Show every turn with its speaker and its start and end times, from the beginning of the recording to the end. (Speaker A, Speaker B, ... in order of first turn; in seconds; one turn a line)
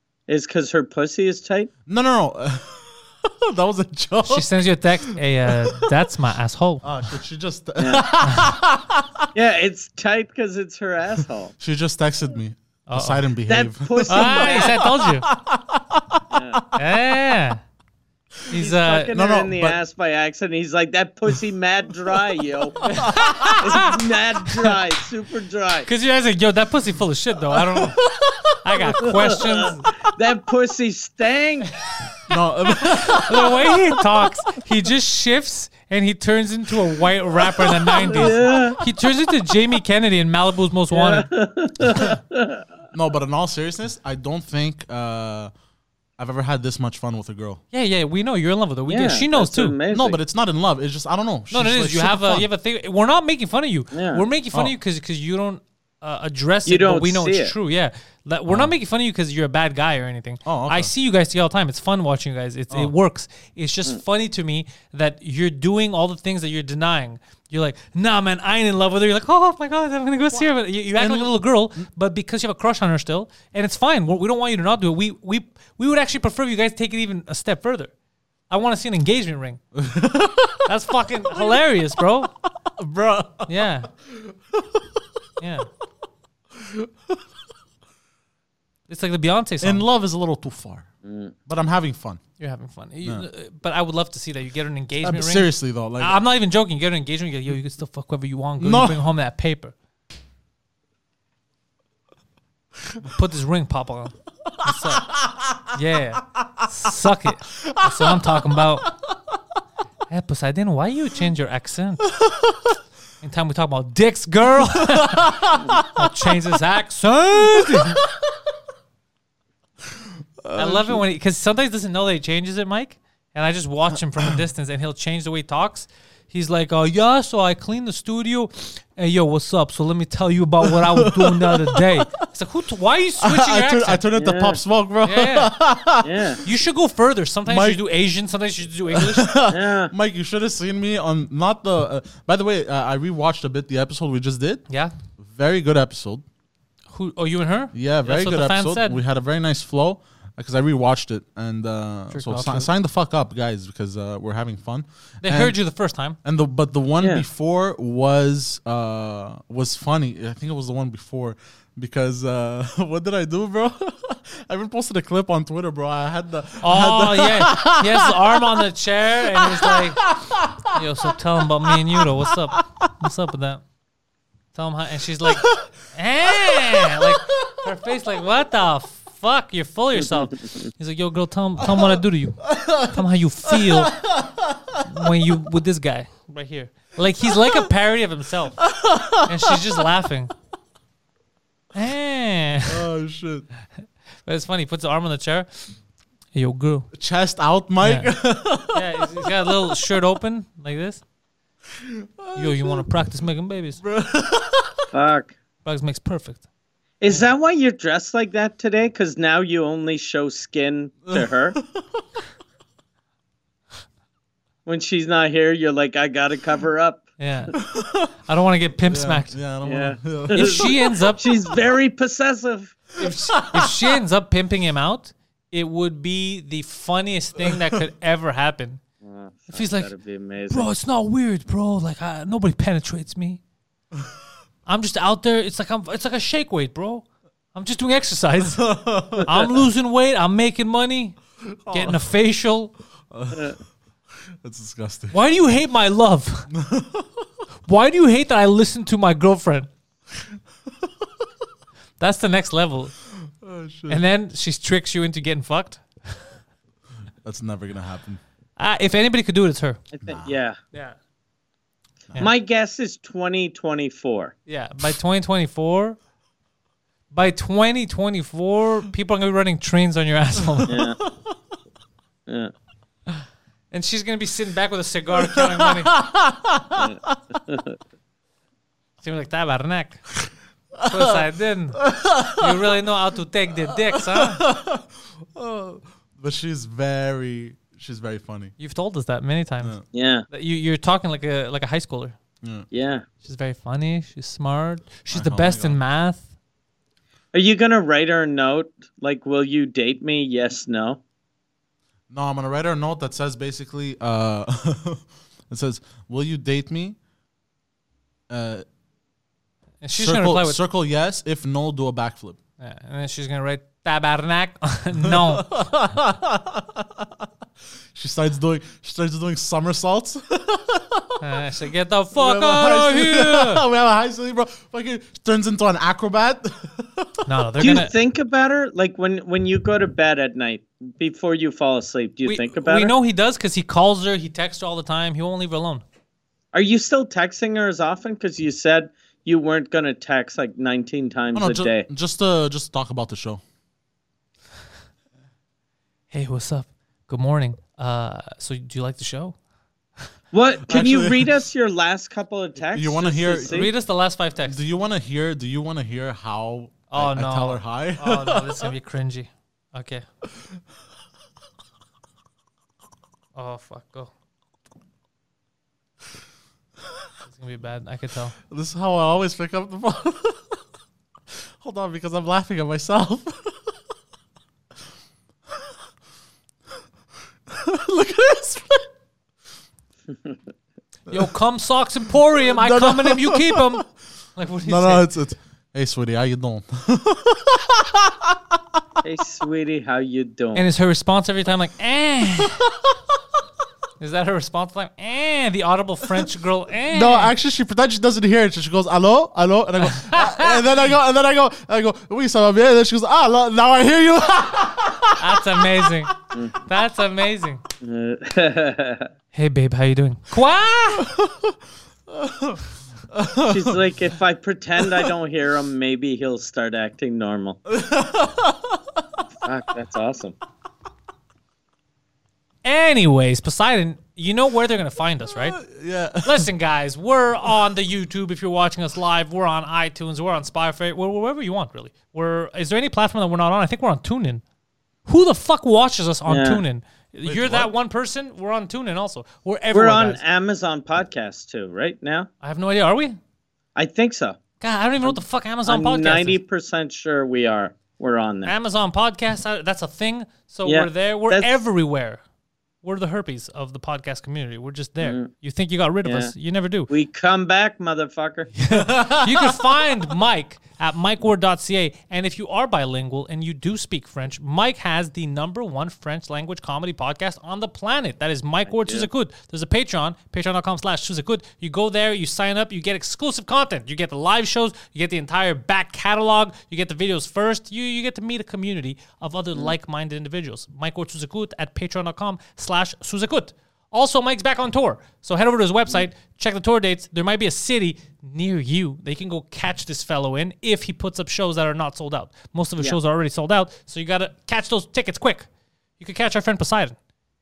Speaker A: 0.3-1.7
Speaker B: 1.9-5.9
Speaker C: 4.2-6.9
Speaker B: 6.8-9.3
Speaker A: 7.8-8.2
Speaker C: 8.2-8.5
Speaker A: 9.3-11.5
Speaker B: 11.6-16.6
Speaker C: 12.9-13.3
Speaker A: 13.5-14.8
Speaker C: 14.1-15.3
Speaker A: 16.3-16.6
Speaker C: 16.7-17.6
Speaker C: 18.5-19.1
Speaker A: 18.6-22.9
Speaker B: 19.1-19.8
Speaker C: 22.8-23.9
Speaker B: 22.8-23.7
Speaker A: 23.6-25.9
Speaker C: 25.9-28.0
Speaker B: 27.5-29.2
Speaker C: 28.6-29.8
Speaker A: 29.2-31.7
Speaker B: 32.3-34.0
Speaker C: 32.9-41.3
Speaker B: 36.7-38.8
Speaker A: 38.1-38.8
Speaker A: 40.9-42.6
Speaker B: 42.9-45.5
Speaker B: 46.2-47.6
Speaker C: 47.7-49.7
Speaker A: 48.9-50.2
Speaker B: 49.9-52.5
Speaker C: 51.5-77.9
Speaker A: 53.9-54.2
Speaker A: 56.6-57.5
Speaker B: 58.5-58.7
Speaker B: 60.4-60.9
Speaker B: 70.9-71.9
Speaker C: 78.5-79.6
Speaker B: 79.7-80.7
Speaker C: 80.7-82.3
Speaker B: 81.3-81.6
Speaker B: 82.6-85.2
Speaker C: 83.5-83.9
Speaker C: 85.4-85.7
Speaker B: 86.5-87.2
Speaker C: 88.9-89.8
Speaker B: 89.6-90.9
Speaker A: 91.0-91.3
Speaker B: 91.5-92.2
Speaker C: 92.4-99.7
Speaker B: 95.0-96.2
Speaker B: 98.6-99.0
Speaker C: 103.0-105.1
Speaker B: 104.5-105.8
Speaker C: 105.7-108.9
Speaker B: 106.4-106.7
Speaker B: 107.5-109.1
Speaker C: 110.1-112.1
Speaker B: 112.1-112.8
Speaker C: 113.2-118.0
Speaker B: 114.7-116.1
Speaker B: 117.3-118.4
Speaker B: 120.4-121.0
Speaker C: 120.5-134.0
Speaker B: 130.6-132.2
Speaker B: 133.2-136.4
Speaker A: 134.2-134.6
Speaker C: 135.0-135.5
Speaker A: 136.0-136.4
Speaker C: 136.4-139.3
Speaker B: 137.4-137.8
Speaker B: 138.9-144.6
Speaker A: 139.5-139.9
Speaker C: 144.7-144.9
Speaker B: 145.2-146.2
Speaker C: 146.9-149.0
Speaker B: 147.7-155.6
Speaker C: 152.1-152.7
Speaker C: 155.2-156.2
Speaker B: 156.2-168.7
Speaker C: 166.6-170.0
Speaker B: 169.3-172.6
Speaker C: 170.7-173.6
Speaker C: 174.5-184.0
Speaker B: 175.2-175.7
Speaker B: 176.4-177.5
Speaker B: 181.6-181.9
Speaker B: 182.4-184.8
Speaker C: 184.8-188.6
Speaker B: 187.3-187.7
Speaker B: 188.7-189.6
Speaker C: 189.2-190.3
Speaker C: 191.7-192.8
Speaker B: 192.7-193.5
Speaker C: 193.8-195.8
Speaker C: 196.3-196.9
Speaker B: 196.9-199.7
Speaker C: 197.8-198.1
Speaker C: 198.7-201.0
Speaker B: 201.7-202.8
Speaker C: 202.3-203.8
Speaker B: 203.8-204.8
Speaker A: 204.9-205.3
Speaker C: 205.6-206.4
Speaker A: 207.0-211.6
Speaker B: 211.1-212.0
Speaker A: 214.7-217.5
Speaker C: 217.2-217.5
Speaker B: 217.5-218.1
Speaker C: 218.2-219.3
Speaker B: 218.9-220.9
Speaker A: 219.6-222.8
Speaker C: 220.3-221.2
Speaker C: 223.0-228.8
Speaker B: 223.0-223.7
Speaker B: 227.4-227.8
Speaker A: 229.0-230.7
Speaker C: 229.5-229.9
Speaker C: 230.5-233.4
Speaker C: 234.7-242.7
Speaker B: 238.4-239.6
Speaker B: 241.4-242.0
Speaker B: 243.1-243.5
Speaker A: 243.3-243.6
Speaker B: 244.2-245.2
Speaker C: 245.1-246.5
Speaker B: 246.5-247.3
Speaker C: 247.7-249.7
Speaker B: 250.3-250.9
Speaker C: 252.0-252.9
Speaker B: 253.2-254.0
Speaker C: 253.9-256.3
Speaker B: 257.2-258.2
Speaker C: 258.6-259.8
Speaker A: 259.9-260.6
Speaker B: 260.1-260.4
Speaker A: 262.2-264.3
Speaker C: 264.5-266.0
Speaker C: 267.1-270.8
Speaker B: 270.6-271.3
Speaker A: 270.7-271.0
Speaker C: 273.7-275.9
Speaker B: 275.2-277.4
Speaker A: 276.8-277.7
Speaker C: 279.0-280.1
Speaker B: 280.8-281.2
Speaker C: 280.9-284.4
Speaker B: 281.8-282.8
Speaker B: 283.7-288.5
Speaker C: 288.6-289.8
Speaker A: 289.9-290.2
Speaker C: 290.3-292.2
Speaker B: 292.4-292.7
Speaker A: 292.7-293.0
Speaker C: 293.2-296.3
Speaker B: 295.1-295.8
Speaker A: 297.3-301.0
Speaker B: 302.1-307.0
Speaker B: 308.3-308.6
Speaker C: 309.8-310.6
Speaker B: 309.9-312.4
Speaker C: 312.6-315.7
Speaker B: 315.0-317.2
Speaker B: 317.9-321.2
Speaker C: 321.2-323.6
Speaker B: 322.1-327.2
Speaker C: 327.2-327.9
Speaker A: 327.6-332.9
Speaker C: 332.2-335.8
Speaker A: 336.5-341.9
Speaker B: 341.3-343.4
Speaker C: 346.1-349.4
Speaker A: 350.3-353.7
Speaker B: 350.7-351.4
Speaker B: 352.7-353.7
Speaker C: 353.4-354.6
Speaker B: 354.4-358.7
Speaker C: 356.9-360.0
Speaker C: 363.3-364.1
Speaker C: 367.2-368.3
Speaker B: 368.5-370.6
Speaker B: 371.6-373.7
Speaker B: 377.5-378.9
Speaker C: 381.1-385.1
Speaker B: 382.4-383.6
Speaker B: 384.6-388.8
Speaker A: 389.0-390.7
Speaker C: 390.5-392.6
Speaker C: 394.0-397.3
Speaker B: 396.9-405.9
Speaker C: 399.9-400.5
Speaker C: 405.2-406.1
Speaker C: 406.6-407.6
Speaker A: 407.8-409.1
Speaker C: 409.3-411.1
Speaker B: 411.0-411.6
Speaker B: 412.1-412.6
Speaker B: 413.1-413.8
Speaker A: 413.4-417.6
Speaker B: 414.8-415.1
Speaker B: 417.7-419.1
Speaker A: 419.4-420.4
Speaker C: 422.6-425.6
Speaker B: 425.5-426.5
Speaker C: 426.2-434.4
Speaker C: 435.0-440.2
Speaker A: 436.3-436.6
Speaker B: 437.2-437.7
Speaker A: 439.7-442.3
Speaker C: 442.4-443.2
Speaker A: 443.8-444.4
Speaker C: 444.6-446.4
Speaker A: 445.0-448.5
Speaker C: 448.4-452.2
Speaker A: 450.6-451.5
Speaker C: 452.8-456.9
Speaker A: 455.0-455.3
Speaker A: 456.0-456.3
Speaker A: 456.9-458.5
Speaker C: 458.6-495.5
Speaker B: 458.7-459.6
Speaker A: 468.7-469.1
Speaker C: 496.0-497.0